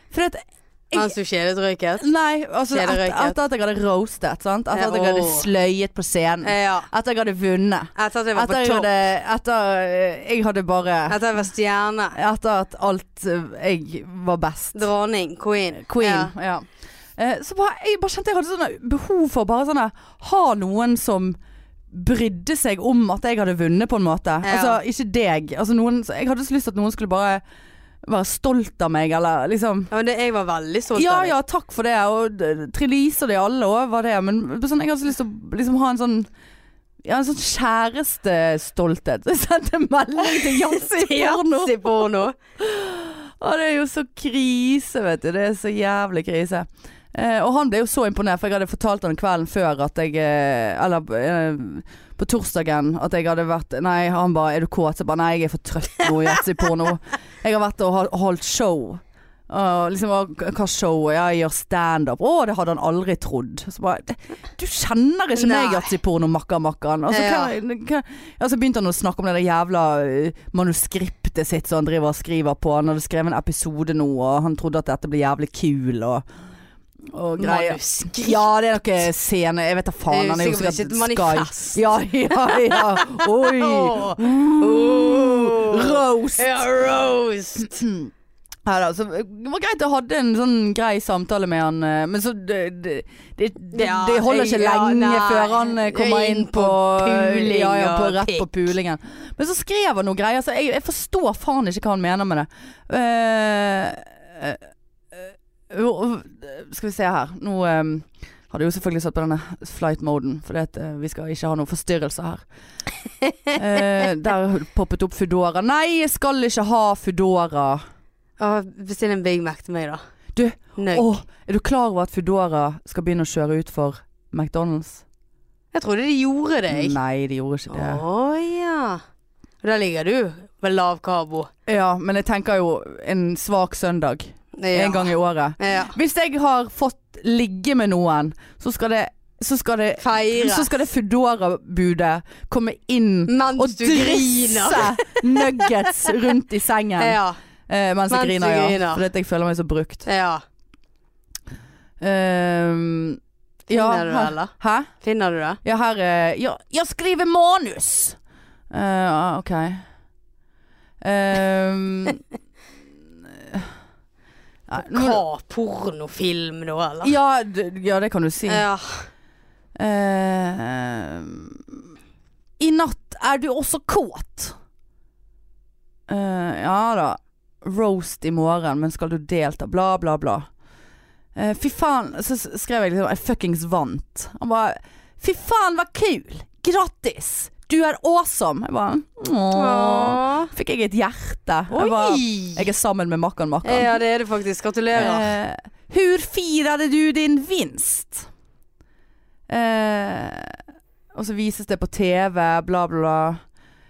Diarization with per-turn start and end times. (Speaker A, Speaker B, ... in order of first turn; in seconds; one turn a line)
Speaker A: 0.1-1.1
Speaker B: 0.9-2.1
Speaker A: 2.0-11.2
Speaker B: 2.7-3.4
Speaker B: 4.7-5.5
Speaker B: 6.4-6.9
Speaker B: 8.0-8.9
Speaker B: 11.1-12.2
Speaker A: 12.2-14.9
Speaker B: 14.8-16.3
Speaker A: 15.7-16.6
Speaker A: 17.2-21.4
Speaker A: 21.9-27.4
Speaker B: 24.4-24.8
Speaker A: 28.1-29.9
Speaker B: 29.9-31.4
Speaker A: 30.9-36.3
Speaker A: 37.0-41.9
Speaker B: 40.3-42.4
Speaker A: 42.6-76.2
Speaker B: 65.4-65.9
Speaker B: 67.1-67.5
Speaker A: 77.1-86.5
Speaker B: 77.4-78.4
Speaker B: 80.1-87.8
Speaker A: 87.6-88.1
Speaker A: 88.7-112.4
Speaker B: 93.7-98.5
Speaker A: 113.5-117.8
Speaker B: 118.4-120.0
Speaker A: 120.3-125.0
Speaker B: 120.8-121.2
Speaker B: 125.7-127.0
Speaker A: 126.7-128.0
Speaker B: 127.7-129.0
Speaker B: 129.6-131.5
Speaker A: 131.7-150.1
Speaker B: 134.6-135.9
Speaker B: 140.0-140.7
Speaker B: 143.3-146.1
Speaker B: 147.0-147.4
Speaker B: 148.1-149.0
Speaker B: 150.1-150.4
Speaker A: 152.0-154.9
Speaker B: 153.7-155.6
Speaker A: 155.6-158.2
Speaker A: 158.7-159.8
Speaker A: 161.0-162.2
Speaker A: 163.3-163.7
Speaker A: 164.7-165.2
Speaker B: 164.8-167.2
Speaker A: 167.0-168.7
Speaker B: 168.5-169.1
Speaker A: 169.8-171.8
Speaker A: 172.6-174.6
Speaker A: 176.1-180.5
Speaker A: 181.3-194.0
Speaker B: 189.5-190.5
Speaker B: 191.7-192.7
Speaker B: 193.6-195.3
Speaker A: 194.9-198.3
Speaker A: 199.5-200.6
Speaker A: 201.1-203.4